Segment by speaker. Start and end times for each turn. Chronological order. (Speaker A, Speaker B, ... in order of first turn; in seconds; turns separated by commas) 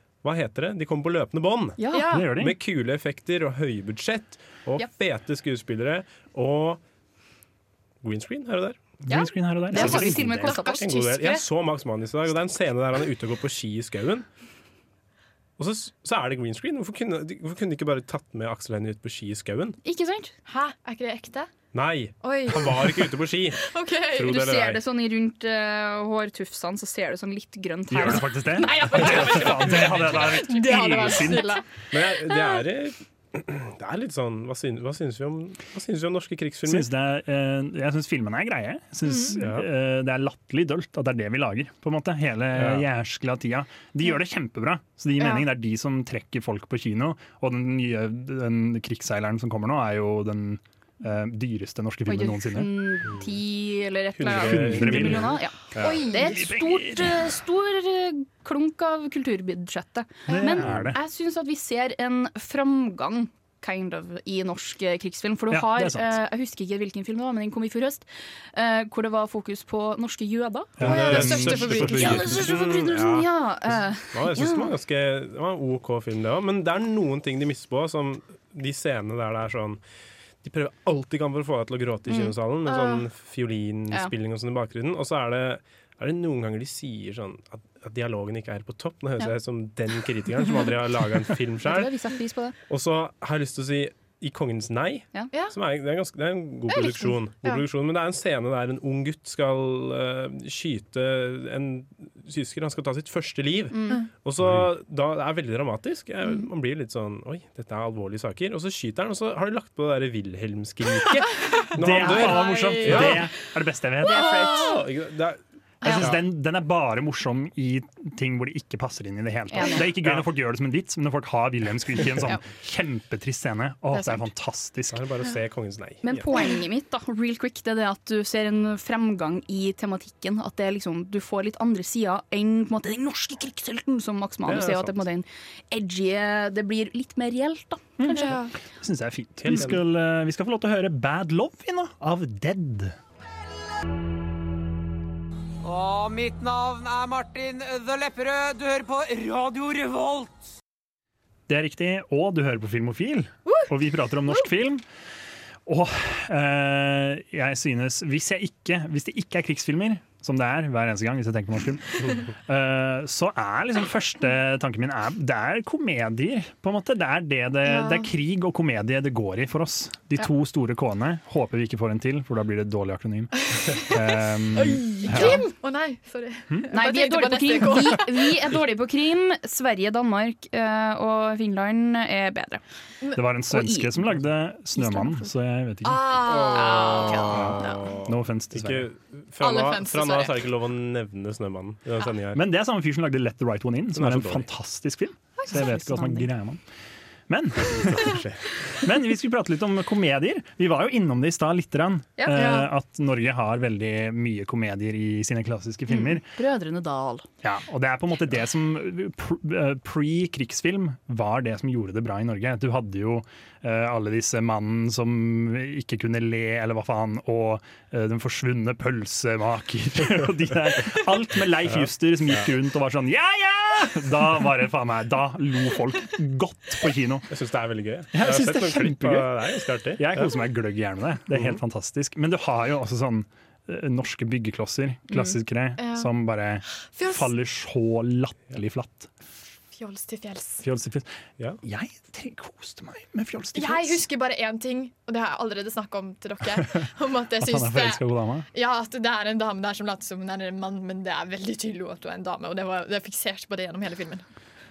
Speaker A: 0.2-1.8, Speaker B: 1.8-2.2, Speaker C: 1.9-2.2, Speaker D: 2.1-2.5, Speaker A: 2.4-6.8, Speaker A: 8.0-8.8, Speaker D: 9.0-10.6, Speaker B: 9.1-11.4, Speaker C: 9.7-10.9, Speaker A: 10.8-14.2, Speaker A: 15.6-19.8, Speaker B: 19.8-20.3, Speaker C: 20.4-21.5, Speaker A: 21.7-24.8, Speaker C: 22.2-23.0, Speaker C: 23.6-24.4, Speaker B: 24.3-29.4, Speaker D: 27.9-31.6, Speaker C: 28.6-31.6, Speaker A: 31.9-36.9, Speaker D: 36.6-52.9, Speaker C: 39.0-39.4, Speaker A: 39.4-39.6, Speaker A: 42.5-42.8, Speaker B: 52.1-74.7, Speaker A: 54.2-56.0, Speaker D: 54.3-55.4, Speaker C: 55.8-56.4, Speaker D: 56.1-57.3, Speaker C: 60.3-60.6, Speaker D: 60.3-61.0, Speaker D: 65.5-66.2, Speaker D: 70.8-72.5, Speaker A: 70.8-79.8, Speaker C: 70.8-72.4, Speaker A: 80.4-91.9, Speaker B: 82.1-82.3, Speaker C: 82.7-83.0, Speaker B: 91.6-92.5, Speaker A: 92.7-113.2, Speaker C: 96.7-97.6, Speaker B: 103.7-104.0, Speaker D: 104.4-104.7, Speaker C: 111.4-113.2, Speaker D: 111.7-114.6, Speaker C: 114.0-114.8, Speaker B: 114.0-114.8, Speaker A: 114.5-116.2, Speaker C: 115.8-116.1, Speaker D: 115.8-125.0, Speaker B: 119.5-119.9, Speaker B: 123.9-124.2, Speaker A: 124.9-126.3, Speaker B: 126.0-138.3, Speaker A: 134.4-135.0, Speaker D: 138.0-142.9, Speaker C: 138.1-138.5, Speaker A: 139.4-139.8, Speaker E: 145.6-150.4, Speaker D: 151.5-154.8, Speaker D: 155.7-175.5, Speaker C: 167.6-168.1, Speaker C: 174.5-178.5, Speaker B: 175.1-175.4, Speaker B: 176.7-182.6, Speaker D: 183.1-186.2, Speaker B: 183.5-184.2, Speaker B: 184.7-185.3, Speaker C: 185.8-187.7, Speaker A: 186.2-192.4, Speaker B: 186.4-187.8, Speaker D: 188.0-188.9, Speaker C: 189.4-190.4, Speaker D: 192.3-196.6, Speaker A: 193.9-194.5, Speaker B: 195.5-196.3, Speaker D: 197.3-198.2, Speaker A: 198.0-198.4, Speaker D: 198.8-206.2, Speaker B: 202.2-202.5, Speaker C: 202.3-202.7, Speaker B: 205.9-207.2, Speaker D: 207.4-227.3, Speaker A: 221.7-222.5, Speaker A: 227.3-230.3, Speaker D: 228.1-229.4, Speaker D: 229.9-239.1, Speaker A: 231.3-231.6, Speaker C: 235.8-236.1, Speaker C: 236.9-237.3, Speaker C: 239.7-240.6, Speaker D: 240.6-241.1, Speaker D: 241.6-244.0, Speaker C: 243.5-254.2, Speaker D: 247.4-248.5